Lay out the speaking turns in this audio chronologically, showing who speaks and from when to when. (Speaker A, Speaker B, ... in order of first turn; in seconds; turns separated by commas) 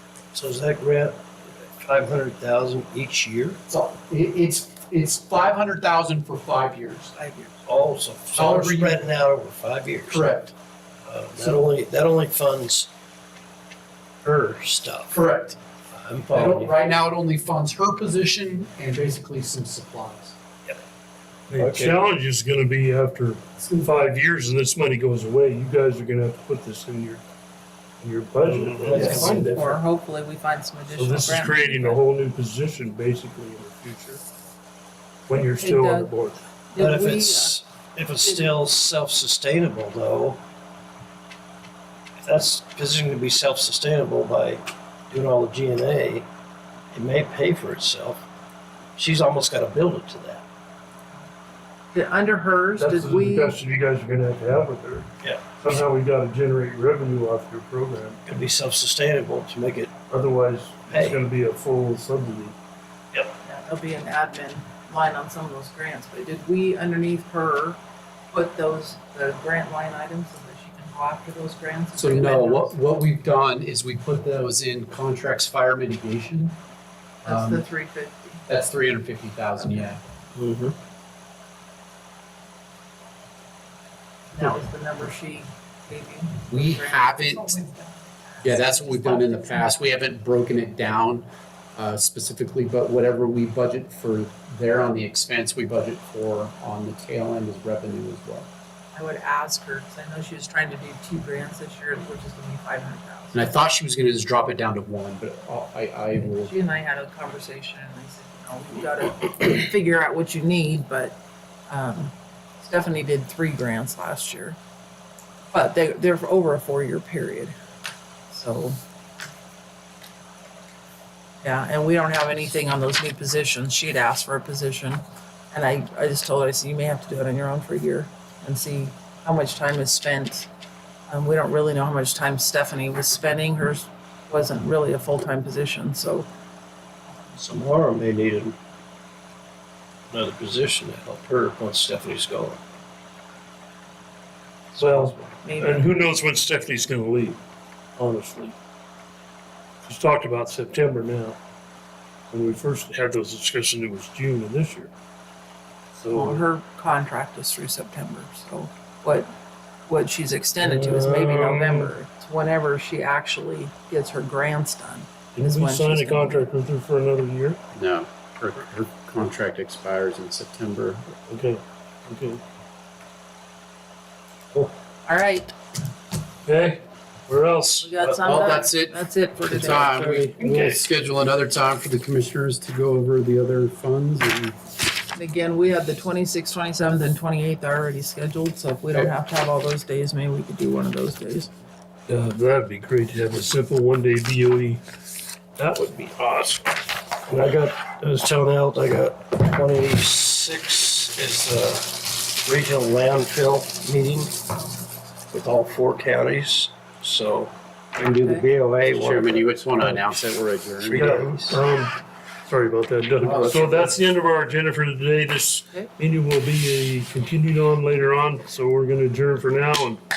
Speaker A: 0.3-1.2, Speaker A: 1.8-3.6, Speaker B: 3.7-7.1, Speaker C: 7.1-7.9, Speaker A: 7.7-10.2, Speaker B: 8.3-9.1, Speaker B: 10.1-10.5, Speaker A: 11.1-12.9, Speaker A: 14.2-15.1, Speaker B: 15.1-15.6, Speaker A: 15.9-16.7, Speaker B: 16.3-20.3, Speaker D: 21.5-27.2, Speaker A: 21.6-22.1, Speaker D: 28.0-29.8, Speaker A: 28.5-29.5, Speaker C: 28.9-32.0, Speaker D: 30.9-34.2, Speaker D: 35.3-36.4, Speaker C: 35.4-36.1, Speaker C: 36.7-37.6, Speaker A: 36.8-40.4, Speaker A: 42.2-46.2, Speaker A: 46.9-48.2, Speaker A: 49.0-50.4, Speaker C: 51.9-53.6, Speaker D: 52.8-58.2, Speaker A: 58.2-59.9, Speaker D: 60.1-62.5, Speaker A: 60.9-61.2, Speaker C: 63.4-67.8, Speaker C: 68.3-72.8, Speaker B: 72.0-76.6, Speaker C: 77.2-78.5, Speaker B: 77.2-77.6, Speaker B: 78.5-80.0, Speaker A: 80.3-80.7, Speaker C: 84.3-89.9, Speaker B: 86.5-87.6, Speaker B: 88.4-98.5, Speaker C: 98.9-103.5, Speaker B: 103.3-106.5, Speaker C: 106.2-114.6, Speaker C: 115.5-117.5, Speaker C: 118.3-118.8, Speaker C: 121.4-130.5, Speaker C: 131.1-136.3, Speaker A: 137.4-138.6, Speaker A: 140.1-142.6, Speaker A: 144.7-145.3, Speaker D: 144.8-147.4, Speaker C: 145.4-146.0, Speaker D: 148.0-148.5, Speaker D: 149.8-151.4, Speaker D: 152.3-154.9, Speaker D: 156.0-156.4, Speaker C: 156.1-159.3, Speaker C: 159.9-166.5, Speaker D: 160.6-161.9, Speaker D: 165.3-167.6, Speaker B: 167.7-171.0, Speaker D: 171.3-172.4, Speaker C: 175.1-175.5, Speaker D: 176.4-178.2, Speaker C: 177.8-180.2, Speaker B: 178.2-184.6, Speaker D: 180.1-180.8, Speaker C: 185.1-191.5, Speaker D: 192.1-194.8, Speaker D: 195.6-196.8, Speaker A: 197.3-204.5, Speaker A: 205.3-209.5, Speaker C: 208.1-208.4, Speaker B: 208.9-211.2, Speaker A: 210.8-211.6, Speaker D: 211.0-220.0, Speaker B: 213.2-214.0